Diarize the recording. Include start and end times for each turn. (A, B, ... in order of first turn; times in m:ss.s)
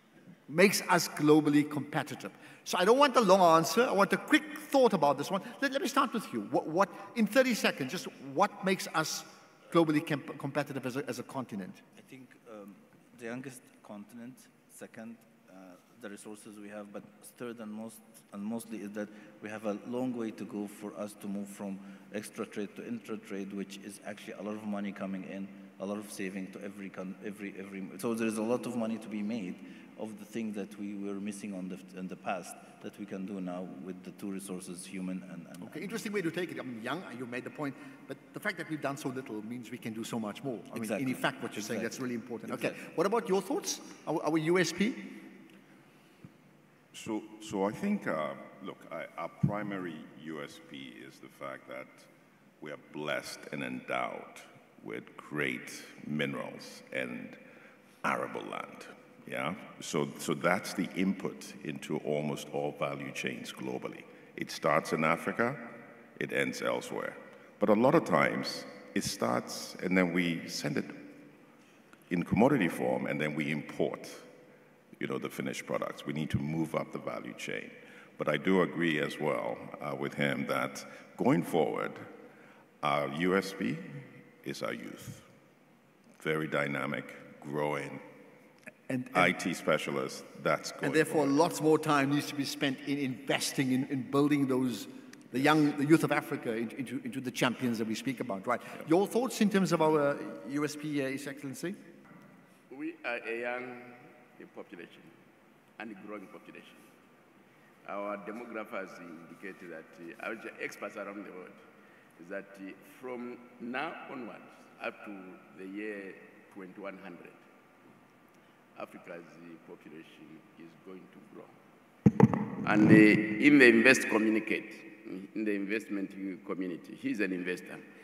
0:00.5-0:11.8 A
0:12.0-0:35.9 B
0:35.6-0:45.2 A
0:40.7-0:42.8 B
0:46.9-0:52.1 C
0:52.6-0:57.4 C
0:58.0-1:11.0 C
1:12.1-1:14.2 C
1:15.0-1:22.0 C
1:22.8-1:25.2 C
1:26.2-1:28.0 C
1:28.9-1:29.3 A
1:29.1-1:31.3 C
1:30.8-1:41.8 A
1:42.7-1:45.1 D
1:45.8-1:46.9 D
1:47.8-1:51.6 D
1:52.2-1:57.4 D
1:58.7-2:01.5 D
2:02.1-2:07.8 D